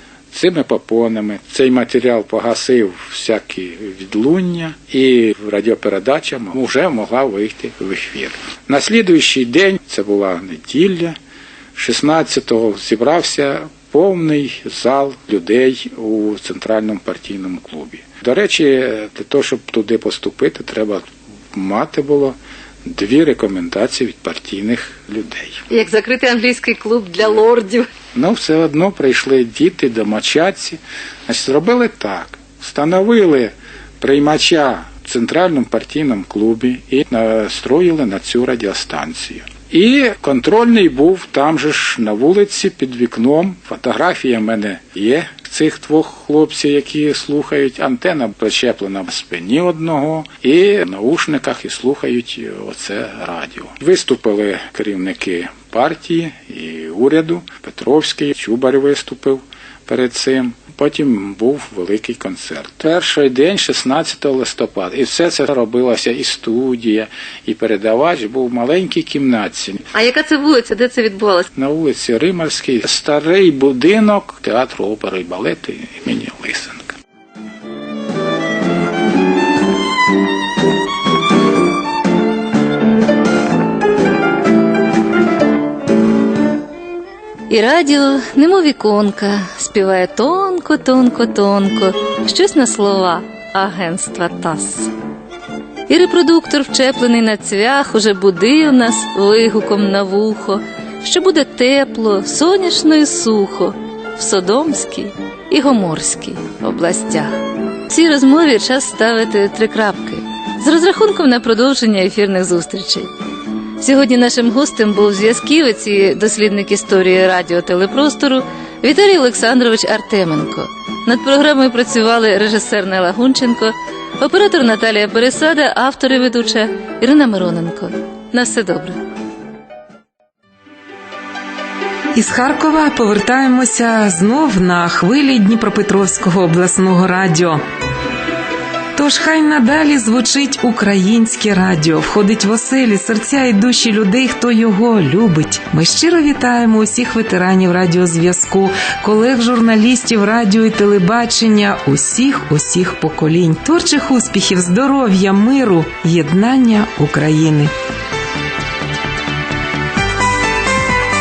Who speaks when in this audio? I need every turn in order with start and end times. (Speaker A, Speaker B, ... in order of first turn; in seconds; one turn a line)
Speaker A: 0.3-11.2
Speaker A: 11.8-25.6
Speaker B: 25.7-27.9
Speaker A: 28.1-69.9
Speaker B: 69.9-71.5
Speaker A: 71.5-76.9
Speaker B: 87.5-94.9
Speaker B: 95.9-113.1
Speaker B: 113.8-129.0
Speaker C: 132.2-137.6
Speaker C: 138.9-157.7